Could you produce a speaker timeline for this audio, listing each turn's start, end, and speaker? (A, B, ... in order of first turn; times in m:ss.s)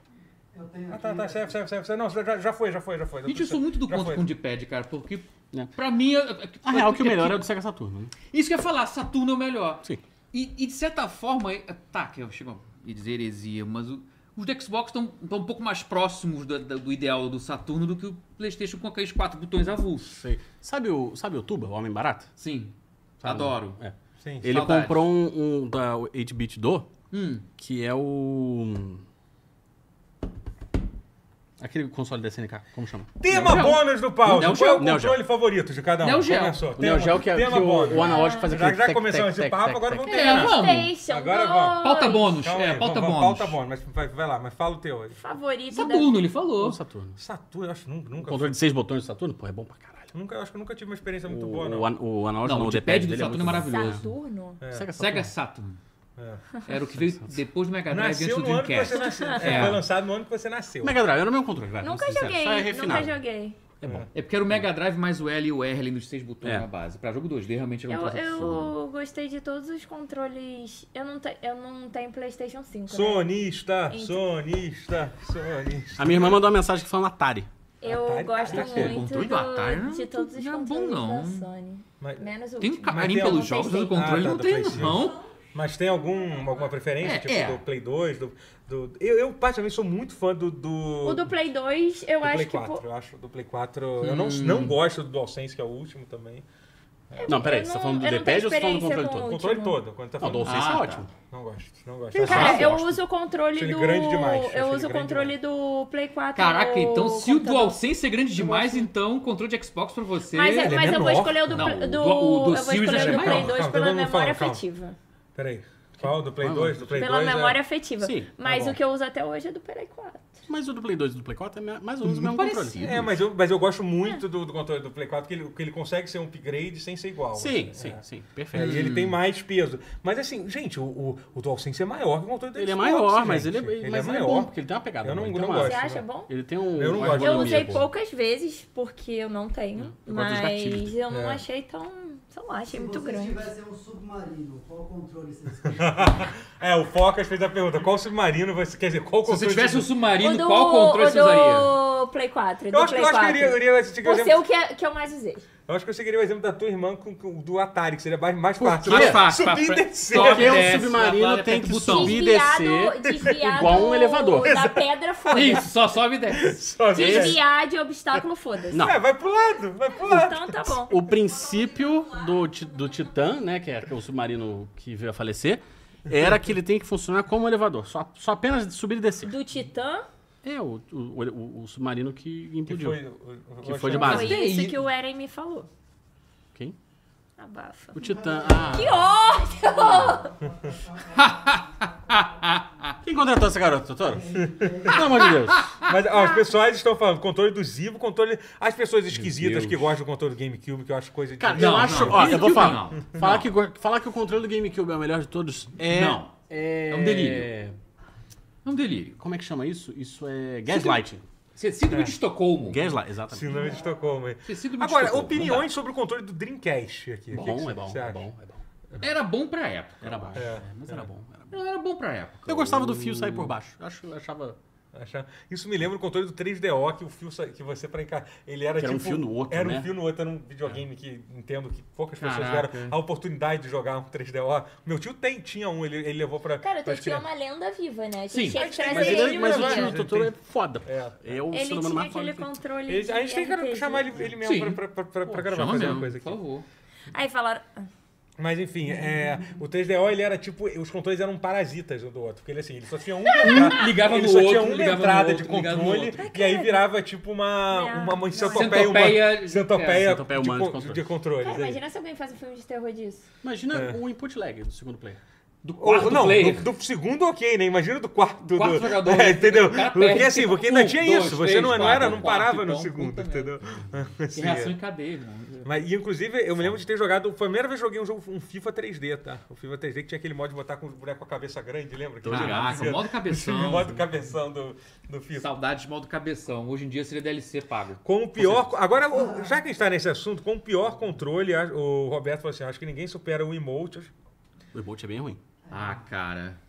0:00.5-0:01.5 A
0:00.9-0:04.3 B
0:03.2-0:07.5 C
0:06.7-0:08.1 D
0:08.3-0:20.2 C
0:20.1-0:22.3 D
0:22.4-0:23.8 C
0:23.2-0:26.9 D
0:24.2-0:24.6 B
0:24.4-0:25.1 C
0:27.1-0:27.4 C
0:27.6-0:29.0 D
0:31.6-0:35.2 D
0:33.2-0:41.9 B
0:33.4-0:35.0 C
0:36.0-0:36.6 C
0:36.7-0:40.3 D
0:37.8-0:38.5 E
0:40.1-0:40.9 C
0:40.1-0:42.3 E
0:41.8-0:43.6 C
0:42.4-0:45.2 B
0:45.2-0:46.2 E
0:45.7-0:46.8 C
0:46.6-0:47.2 D
0:47.2-0:48.6 B
0:48.2-0:50.1 D
0:50.1-0:51.9 B
0:51.2-0:54.0 D
0:52.4-0:54.0 C
0:53.6-0:54.6 E
0:54.6-0:54.9 B
0:54.7-0:55.3 D
0:55.0-0:55.8 C
0:56.2-0:56.4 B
0:56.6-0:59.8 C
0:56.9-0:57.4 D
0:57.9-1:01.0 B
0:58.9-0:59.4 E
0:59.4-0:59.8 D
1:00.8-1:03.2 D
1:01.8-1:03.6 E
1:03.8-1:04.6 D
1:03.8-1:04.1 B
1:04.1-1:08.7 C
1:07.9-1:13.3 E
1:12.9-1:16.4 B
1:13.9-1:14.2 E
1:16.0-1:17.5 D
1:17.8-1:24.3 E
1:17.8-1:19.0 B
1:18.5-1:21.5 C
1:18.6-1:19.0 D
1:22.0-1:22.3 B
1:22.6-1:25.2 C
1:22.9-1:31.4 B
1:27.0-1:27.6 C
1:31.0-1:32.8 E
1:32.2-1:36.4 B
1:34.0-1:34.8 C
1:37.1-1:37.4 B
1:37.2-1:39.8 E
1:37.3-1:39.4 D
1:39.2-1:40.6 B
1:40.2-1:41.1 D
1:40.4-1:41.1 C
1:41.3-1:42.8 B
1:42.2-1:47.8 E
1:42.2-1:42.8 C
1:42.3-1:42.8 D
1:43.6-1:45.4 B
1:46.4-1:50.8 C
1:48.4-1:48.9 E
1:50.3-1:55.0 E
1:50.5-1:51.8 B
1:51.5-1:53.5 C
1:52.8-1:54.6 B
1:55.4-1:57.6 B
1:56.0-1:57.0 D
1:56.9-2:00.4 E
1:58.0-1:58.8 D
2:00.5-2:03.0 D
2:02.0-2:03.2 C
2:02.8-2:16.0 B
2:07.3-2:09.0 D
2:08.5-2:09.2 C
2:12.6-2:17.9 D
2:15.5-2:16.3 E
2:16.8-2:17.8 B
2:17.1-2:23.5 E
2:19.9-2:20.9 D
2:21.1-2:21.4 B
2:22.7-2:26.3 A
2:25.6-2:29.9 B
2:29.2-2:31.7 C
2:30.2-2:35.5 E
2:32.7-2:34.4 B
2:35.7-2:40.9 B
2:38.6-2:39.2 D
2:38.8-2:42.2 C
2:40.1-2:44.6 D
2:41.8-2:45.7 E
2:43.1-2:43.9 B
2:44.4-2:45.6 B
2:45.3-2:46.6 C
2:46.3-2:47.4 B
2:46.9-2:48.9 E
2:47.0-2:47.4 D
2:48.7-2:49.0 D
2:48.7-2:51.1 B
2:49.9-2:51.0 E
2:50.9-2:59.3 D
2:59.2-3:00.1 E
3:00.4-3:03.0 D
3:02.7-3:04.4 B
3:03.6-3:04.4 D
3:03.9-3:05.7 E
3:03.9-3:04.8 C
3:07.4-3:10.3 E
3:08.0-3:09.0 D
3:08.0-3:12.5 A
3:10.5-3:10.7 B
3:11.1-3:13.0 C
3:13.0-3:14.3 D
3:14.1-3:15.4 A
3:14.4-3:15.0 B
3:14.9-3:15.7 D
3:15.2-3:15.9 C
3:15.8-3:23.4 B
3:16.1-3:16.4 E
3:19.2-3:19.8 D
3:21.4-3:27.8 D
3:21.5-3:23.5 C
3:25.9-3:26.4 C
3:26.9-3:27.5 C
3:28.6-3:29.2 C
3:29.2-3:31.3 D
3:30.7-3:31.0 C
3:31.6-3:32.9 C
3:31.9-3:32.2 B
3:32.6-3:33.6 D
3:33.3-3:38.2 B
3:33.5-3:34.0 A
3:34.4-3:35.7 C
3:37.3-3:38.6 D
3:39.0-3:40.5 C
3:40.0-3:41.6 D
3:40.4-3:41.1 B
3:41.5-3:43.6 C
3:42.5-3:44.6 D
3:44.9-3:57.2 B
3:48.8-3:49.9 D
3:52.2-3:53.0 C
3:56.6-4:00.0 E
3:58.3-3:58.6 C
3:58.5-4:01.4 B
3:58.9-4:02.5 D
4:01.5-4:04.2 E
4:02.9-4:06.4 B
4:04.4-4:04.8 C
4:05.3-4:06.0 D
4:05.4-4:06.7 C
4:07.1-4:07.9 E
4:08.4-4:21.8 B
4:13.2-4:13.8 E
4:13.4-4:16.2 C
4:16.2-4:16.8 E
4:17.7-4:19.0 E
4:18.5-4:20.1 C
4:20.0-4:21.0 D
4:21.4-4:23.2 E
4:23.4-4:25.2 D
4:23.7-4:24.0 B
4:25.6-4:26.7 C
4:25.8-4:34.8 B
4:28.5-4:33.5 C
4:31.8-4:32.3 D
4:34.3-4:35.7 C
4:35.6-4:45.5 B
4:42.2-4:43.0 D
4:42.3-4:44.0 C
4:45.3-4:48.0 C
4:48.0-4:54.1 B
4:49.1-4:49.5 A
4:54.7-4:55.4 D
4:55.7-4:56.0 A
4:55.7-4:56.6 C